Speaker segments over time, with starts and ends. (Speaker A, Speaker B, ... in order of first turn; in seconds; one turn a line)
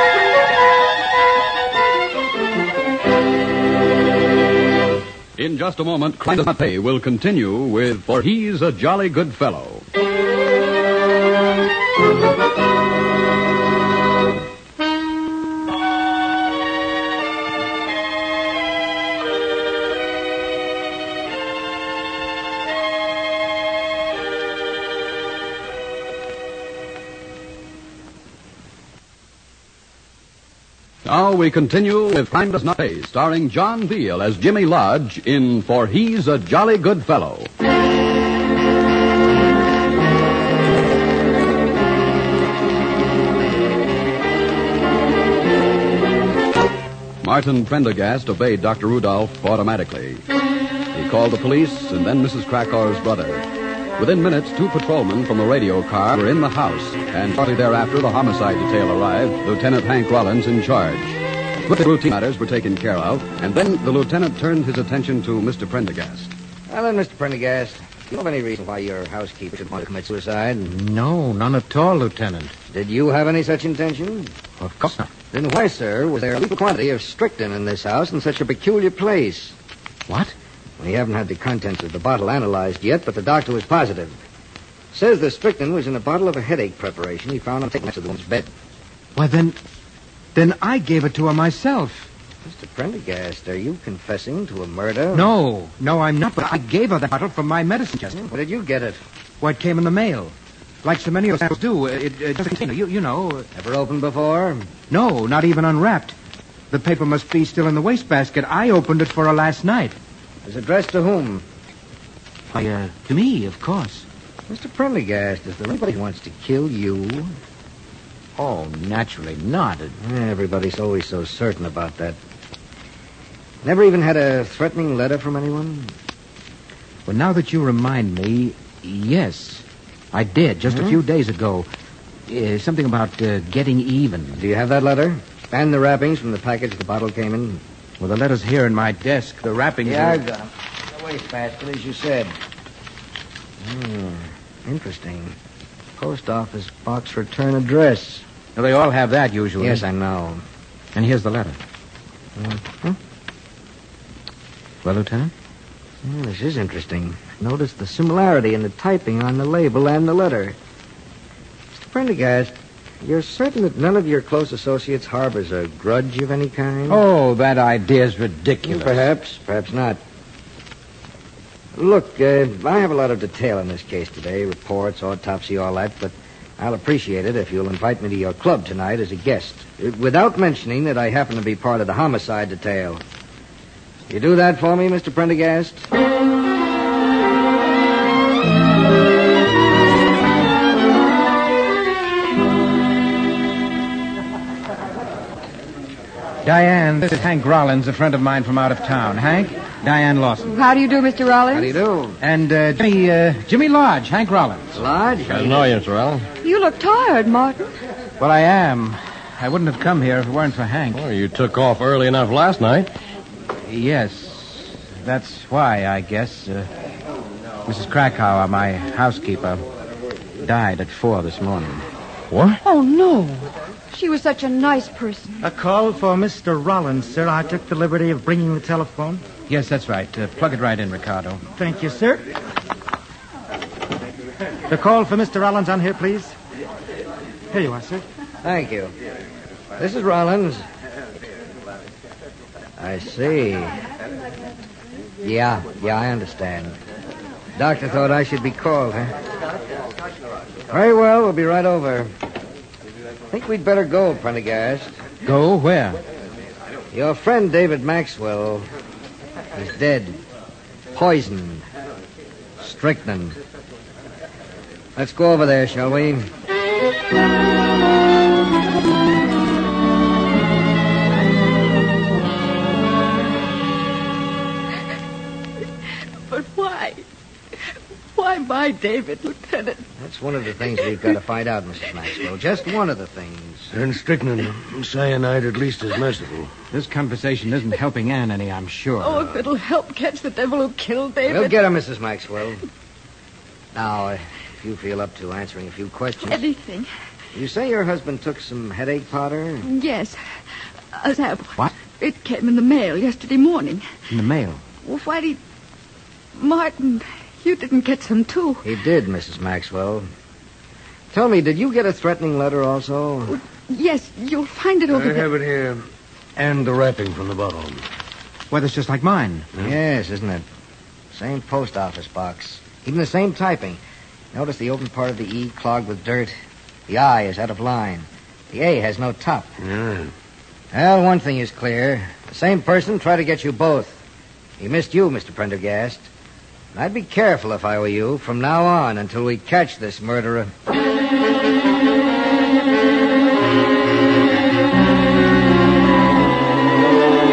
Speaker A: 5.4-9.9
Speaker A: 31.1-37.5
Speaker A: 47.2-50.2
Speaker A: 50.9-53.5
Speaker A: 54.0-66.3
Speaker B: 66.7-70.7
Speaker C: 70.7-72.5
Speaker B: 72.7-74.3
Speaker C: 74.6-75.1
Speaker B: 75.3-79.5
Speaker C: 80.1-80.3
Speaker B: 80.8-84.2
Speaker B: 84.9-88.5
Speaker C: 89.2-89.6
Speaker C: 90.3-92.1
Speaker B: 92.4-95.3
Speaker C: 95.1-98.3
Speaker B: 98.2-99.0
Speaker C: 99.4-103.5
Speaker B: 103.5-104.7
Speaker C: 104.9-106.2
Speaker C: 106.7-110.0
Speaker B: 110.5-111.4
Speaker C: 112.5-114.1
Speaker B: 114.5-117.3
Speaker C: 118.4-120.0
Speaker B: 120.0-122.2
Speaker B: 123.6-125.9
Speaker C: 127.1-131.7
Speaker B: 130.7-131.0
Speaker C: 132.3-134.4
Speaker B: 134.4-137.6
Speaker C: 138.0-140.2
Speaker B: 139.8-142.3
Speaker B: 143.6-145.4
Speaker B: 146.0-148.2
Speaker C: 148.6-149.9
Speaker B: 149.6-150.4
Speaker C: 150.9-151.6
Speaker B: 152.4-153.0
Speaker C: 154.8-155.3
Speaker B: 156.0-160.6
Speaker B: 161.8-167.0
Speaker C: 166.9-169.1
Speaker B: 168.7-170.0
Speaker B: 171.8-183.0
Speaker B: 184.1-185.9
Speaker C: 196.4-200.5
Speaker D: 200.5-201.8
Speaker B: 201.5-202.2
Speaker C: 202.2-204.8
Speaker B: 204.7-205.8
Speaker E: 205.3-206.3
Speaker D: 206.4-207.7
Speaker C: 208.2-211.0
Speaker E: 210.9-212.9
Speaker C: 213.7-216.7
Speaker C: 217.7-219.7
Speaker C: 220.4-221.9
Speaker E: 222.3-222.6
Speaker D: 222.6-225.4
Speaker F: 225.4-229.2
Speaker C: 229.5-231.5
Speaker F: 231.6-232.3
Speaker F: 234.7-236.3
Speaker F: 237.5-238.0
Speaker B: 238.4-238.9
Speaker B: 239.8-240.6
Speaker B: 242.8-243.8
Speaker B: 245.2-246.8
Speaker B: 247.6-249.2
Speaker B: 250.7-252.1
Speaker B: 253.3-254.9
Speaker C: 255.2-256.0
Speaker B: 256.9-258.7
Speaker B: 259.6-260.2
Speaker B: 260.9-261.6
Speaker B: 262.6-263.4
Speaker B: 265.0-266.3
Speaker G: 276.3-277.0
Speaker G: 278.1-279.9
Speaker B: 280.0-283.7
Speaker H: 283.7-286.5
Speaker C: 286.7-289.3
Speaker G: 289.0-291.6
Speaker B: 291.2-292.6
Speaker B: 293.8-296.4
Speaker G: 296.2-296.9
Speaker B: 297.4-299.7
Speaker G: 299.6-300.2
Speaker G: 300.9-303.8
Speaker C: 304.1-304.6
Speaker G: 304.8-305.4
Speaker G: 306.4-308.6
Speaker B: 308.6-310.1
Speaker B: 311.1-313.4
Speaker G: 313.3-315.3
Speaker H: 314.9-317.9
Speaker C: 318.5-319.5
Speaker B: 319.6-320.4
Speaker B: 321.1-323.8
Speaker B: 324.3-326.4
Speaker B: 326.9-329.5
Speaker H: 329.6-330.1
Speaker B: 330.7-334.0
Speaker B: 334.6-336.1
Speaker B: 336.7-340.5